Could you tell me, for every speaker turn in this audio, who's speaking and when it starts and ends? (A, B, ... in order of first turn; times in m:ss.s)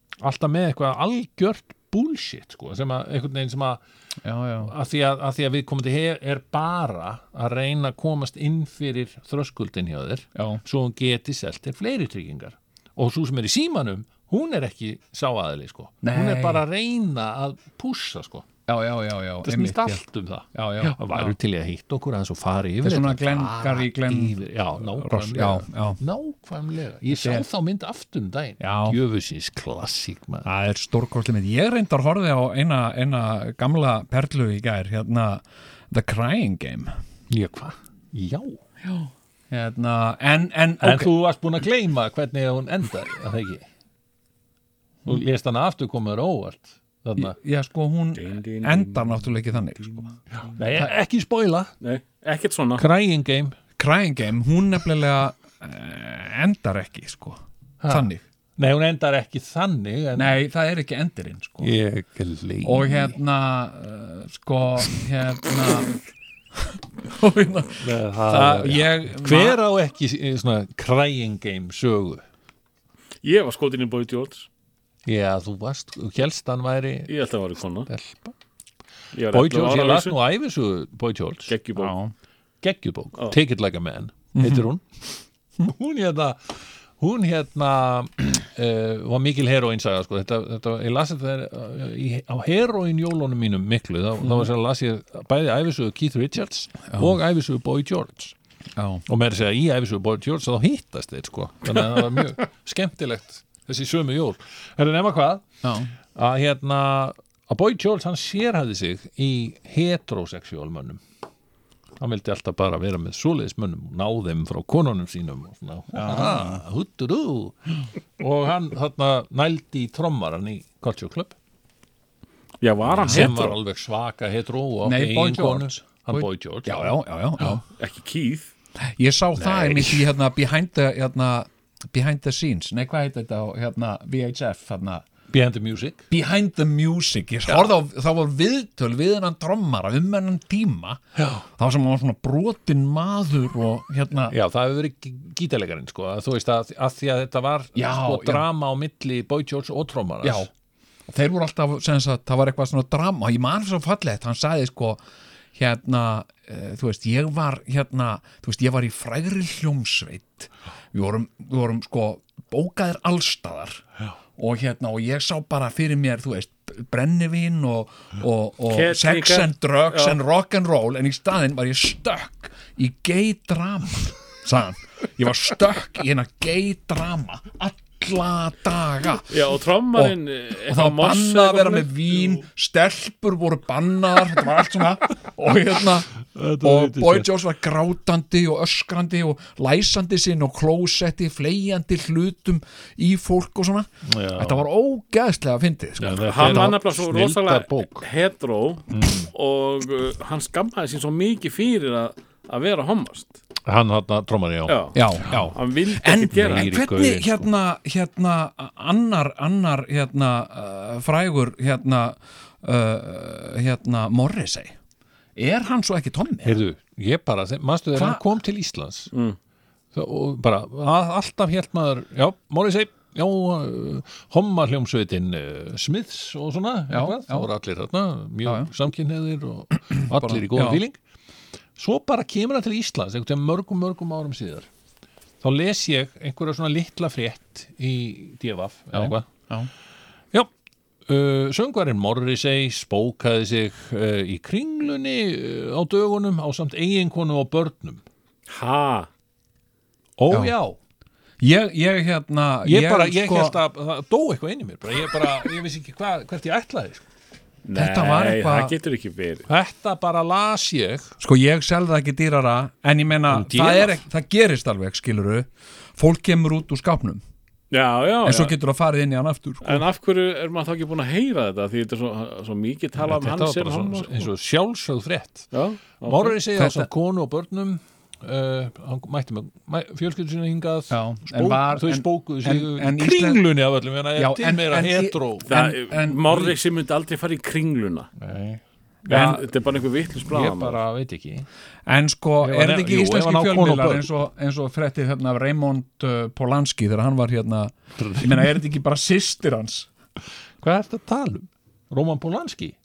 0:00.2-0:03.8 A
0:04.2-0:04.7 B
0:04.6-0:18.5 A
0:10.4-0:10.6 B
0:16.0-0:16.6 B
0:18.7-0:20.0 B
0:19.4-0:30.5 A
0:20.5-0:21.3 B
0:22.8-0:26.0 B
0:27.1-0:27.4 B
0:28.6-0:29.0 B
0:30.4-0:37.0 B
0:37.3-0:38.6 A
0:38.9-0:41.1 B
0:40.8-0:43.7 A
0:45.1-0:47.4 A
0:47.2-0:50.2 B
0:48.2-0:49.1 C
0:50.4-0:51.7 A
0:51.8-0:52.8 C
0:52.8-0:53.6 A
0:53.8-0:58.2 B
0:57.8-1:00.4 A
1:00.2-1:01.7 B
1:01.6-1:03.2 A
1:02.6-1:05.9 B
1:07.0-1:09.6 B
1:07.8-1:12.2 A
1:13.2-1:14.5 C
1:15.0-1:17.1 A
1:17.1-1:17.9 C
1:17.9-1:18.4 A
1:19.1-1:20.2 C
1:19.3-1:21.6 A
1:21.5-1:22.0 C
1:21.8-1:22.1 B
1:22.6-1:25.1 A
1:24.4-1:24.7 B
1:25.6-1:38.4 A
1:38.8-1:39.0 B
1:39.1-1:45.5 A
1:45.6-1:45.9 B
1:46.1-1:51.0 A
1:52.0-1:57.6 A
1:55.9-1:56.6 B
1:58.2-2:01.4 A
2:02.6-2:03.5 C
2:02.8-2:07.0 A
2:03.1-2:03.5 B
2:04.8-2:07.6 B
2:07.8-2:08.5 C
2:08.8-2:15.0 B
2:09.4-2:10.1 A
2:15.3-2:16.0 A
2:16.1-2:21.0 B
2:17.5-2:17.7 A
2:21.2-2:21.4 A
2:21.6-2:24.4 B
2:24.3-2:30.5 A
2:27.8-2:28.4 B
2:30.2-2:30.5 B
2:31.1-2:35.0 B
2:35.6-2:43.8 B
2:44.4-2:59.3 B
2:48.7-2:50.2 C
2:59.3-3:02.4 C
2:59.9-3:16.6 B
3:06.3-3:07.3 A
3:14.0-3:14.7 A
3:16.0-3:18.1 A
3:16.3-3:23.3 C
3:18.9-3:19.3 A
3:23.6-3:25.5 A
3:24.7-3:26.7 C
3:24.9-3:34.8 B
3:26.3-3:27.5 A
3:35.4-3:36.6 B
3:36.4-3:39.1 A
3:38.0-3:38.2 B
3:39.1-3:39.4 C
3:39.9-3:51.0 A
3:46.9-3:47.5 B
3:48.4-3:48.7 B
3:49.9-3:50.8 B
3:51.8-3:54.7 A
3:55.4-3:59.3 A
3:58.9-3:59.7 B
4:01.1-4:08.0 A
4:08.5-4:09.1 C
4:10.2-4:10.8 A
4:11.4-4:13.6 B
4:12.6-4:17.0 A
4:17.6-4:19.5 C
4:17.8-4:18.7 B
4:19.5-4:21.1 A
4:21.2-4:27.2 B
4:23.3-4:24.0 A
4:27.7-4:28.6 C
4:28.2-4:29.8 B
4:29.6-4:34.3 C
4:33.0-4:35.5 A
4:35.5-4:36.4 C
4:36.0-4:45.5 A
4:36.6-4:36.9 B
4:40.9-4:43.4 B
4:44.2-4:46.6 B
4:45.5-4:48.1 C
4:48.2-4:48.6 A
4:49.1-4:50.8 C
4:49.1-4:49.4 B
4:50.3-4:51.5 A
4:51.9-4:59.9 B
4:52.4-4:54.1 A
4:58.0-4:58.5 A
5:00.6-5:02.8 A